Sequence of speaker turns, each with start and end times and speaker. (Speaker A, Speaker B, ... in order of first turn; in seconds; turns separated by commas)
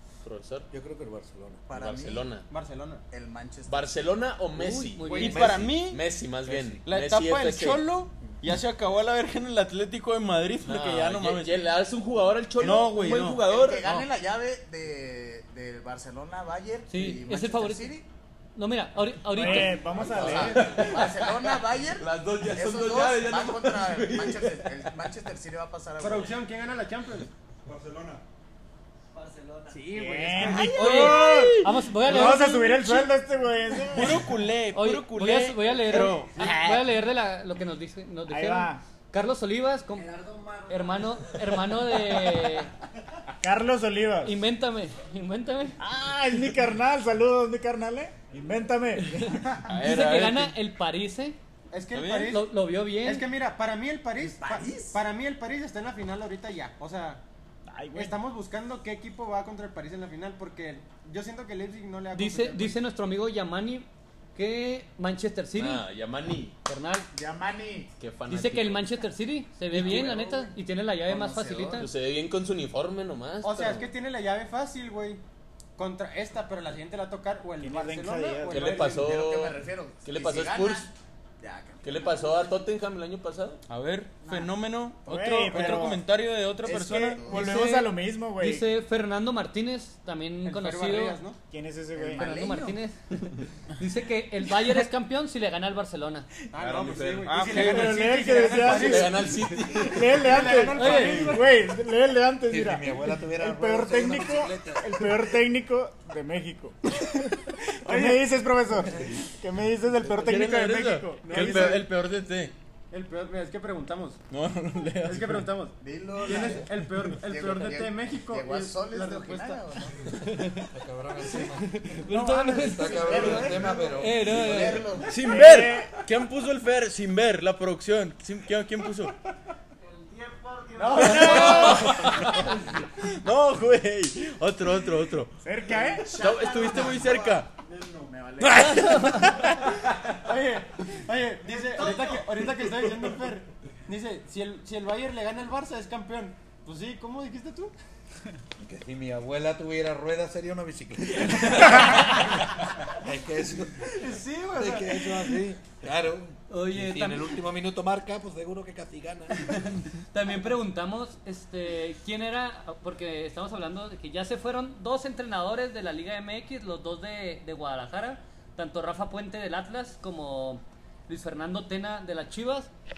Speaker A: 0.2-0.7, Speaker B: 0.7-1.6, Speaker C: 1.7-2.4, Speaker A: 1.7-2.5, Speaker D: 2.5-3.0, Speaker C: 3.1-4.0, Speaker A: 3.7-7.9, Speaker E: 4.8-5.5, Speaker F: 5.1-6.0, Speaker B: 5.2-5.7, Speaker F: 6.8-11.7, Speaker A: 10.6-13.8, Speaker F: 12.6-14.1, Speaker C: 13.4-18.0, Speaker E: 16.9-18.0, Speaker E: 18.6-20.2, Speaker G: 19.3-20.9, Speaker C: 19.8-26.4, Speaker A: 20.2-24.8, Speaker D: 26.0-27.3, Speaker B: 27.6-28.2, Speaker G: 29.7-34.3, Speaker D: 29.9-30.7, Speaker C: 30.0-30.3, Speaker F: 30.4-32.2, Speaker E: 30.5-33.2, Speaker F: 33.9-36.5, Speaker E: 34.7-42.7, Speaker G: 36.4-36.8, Speaker G: 38.3-38.8, Speaker G: 43.4-44.4, Speaker E: 44.2-45.8, Speaker G: 45.8-49.7, Speaker E: 49.1-51.4, Speaker F: 49.6-50.5, Speaker D: 51.7-57.2, Speaker F: 51.9-52.3, Speaker E: 52.2-53.3, Speaker C: 54.3-55.0, Speaker G: 57.7-58.2, Speaker D: 57.9-62.8, Speaker E: 62.1-65.8, Speaker A: 65.5-66.5, Speaker E: 66.6-67.1, Speaker C: 67.1-67.9, Speaker A: 68.0-68.8, Speaker E: 68.3-71.9, Speaker C: 69.7-71.9, Speaker A: 69.7-70.1, Speaker A: 71.8-73.9, Speaker D: 73.4-75.2, Speaker D: 75.8-79.1, Speaker G: 77.6-79.0, Speaker A: 78.5-80.9, Speaker C: 78.9-82.6, Speaker A: 81.8-83.6, Speaker F: 83.7-87.2, Speaker G: 85.0-86.0, Speaker C: 86.6-87.5, Speaker G: 86.7-88.7, Speaker E: 87.2-91.2, Speaker D: 90.4-91.4, Speaker G: 91.5-92.2, Speaker C: 91.9-92.8, Speaker E: 92.2-96.3, Speaker D: 96.5-99.5, Speaker A: 96.6-97.4, Speaker F: 96.8-98.2, Speaker G: 97.4-111.8, Speaker A: 98.5-100.5, Speaker D: 100.2-101.3, Speaker F: 100.3-101.3, Speaker E: 100.7-101.4, Speaker B: 102.5-105.0, Speaker D: 107.9-108.2, Speaker F: 110.0-112.5, Speaker D: 111.2-111.9, Speaker D: 112.9-114.2, Speaker F: 114.3-115.5, Speaker D: 115.0-120.1, Speaker C: 115.8-120.1, Speaker B: 120.7-122.0, Speaker F: 122.0-122.7, Speaker E: 122.1-123.4, Speaker B: 122.6-124.4, Speaker C: 122.6-125.4, Speaker E: 124.0-124.9, Speaker F: 125.0-129.2, Speaker G: 125.2-125.9, Speaker G: 130.1-132.2, Speaker C: 130.7-131.9, Speaker D: 130.8-131.7, Speaker F: 130.9-135.3, Speaker G: 135.4-136.1, Speaker C: 135.7-139.0, Speaker F: 136.1-137.5, Speaker E: 138.5-139.6, Speaker D: 140.1-147.7, Speaker C: 141.4-142.5, Speaker B: 148.6-159.5, Speaker D: 153.9-155.3, Speaker E: 156.5-157.4, Speaker E: 159.3-172.7